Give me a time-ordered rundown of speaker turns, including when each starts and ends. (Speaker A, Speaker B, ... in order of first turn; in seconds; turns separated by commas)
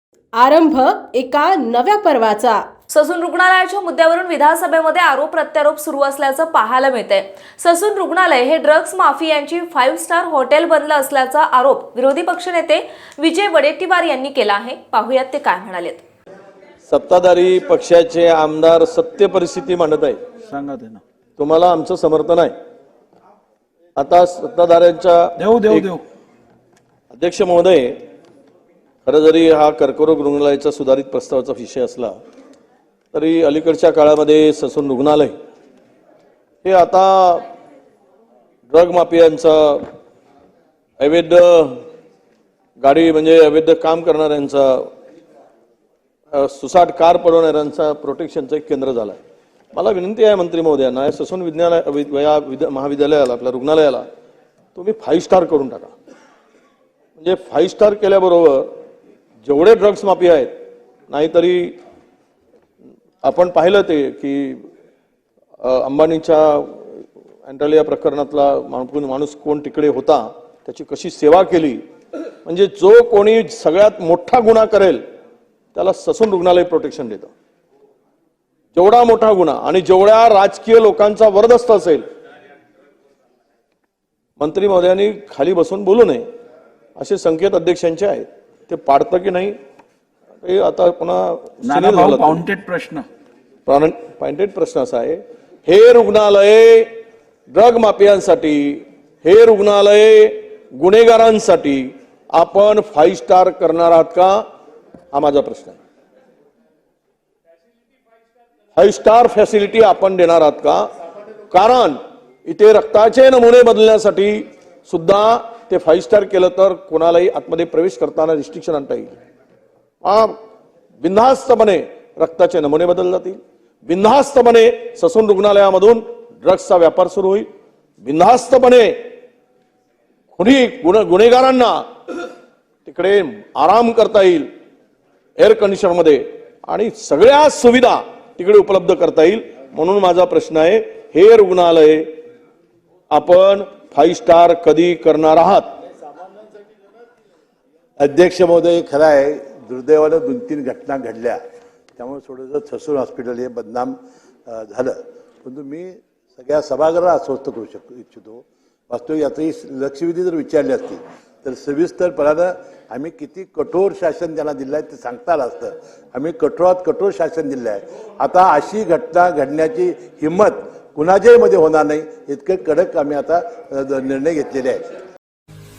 Speaker A: 0.3-2.7, Speaker B: 2.9-16.0, Speaker C: 16.9-20.2, Speaker D: 20.5-21.0, Speaker C: 21.4-22.5, Speaker C: 24.0-25.9, Speaker D: 25.4-26.0, Speaker C: 27.1-28.0, Speaker C: 29.1-32.2, Speaker C: 33.1-35.3, Speaker C: 36.6-37.5, Speaker C: 38.7-39.9, Speaker C: 41.0-41.8, Speaker C: 42.8-44.9, Speaker C: 46.3-49.2, Speaker C: 49.7-54.0, Speaker C: 54.8-55.9, Speaker C: 57.2-58.7, Speaker C: 59.4-60.5, Speaker C: 61.1-61.8, Speaker C: 63.2-64.7, Speaker C: 65.6-71.8, Speaker C: 72.5-75.0, Speaker C: 75.8-77.3, Speaker C: 78.7-82.0, Speaker C: 84.4-86.2, Speaker C: 87.0-89.5, Speaker C: 90.4-92.4, Speaker D: 91.6-93.1, Speaker C: 93.7-96.9, Speaker C: 97.5-104.4, Speaker C: 105.1-105.8, Speaker C: 108.8-110.8, Speaker C: 111.5-119.2, Speaker C: 120.0-120.3, Speaker C: 121.0-127.5, Speaker C: 128.0-129.0, Speaker C: 130.4-131.9, Speaker C: 132.8-134.5, Speaker C: 135.4-142.1, Speaker C: 143.1-145.7, Speaker E: 148.0-151.4, Speaker E: 152.0-154.0, Speaker E: 154.5-174.8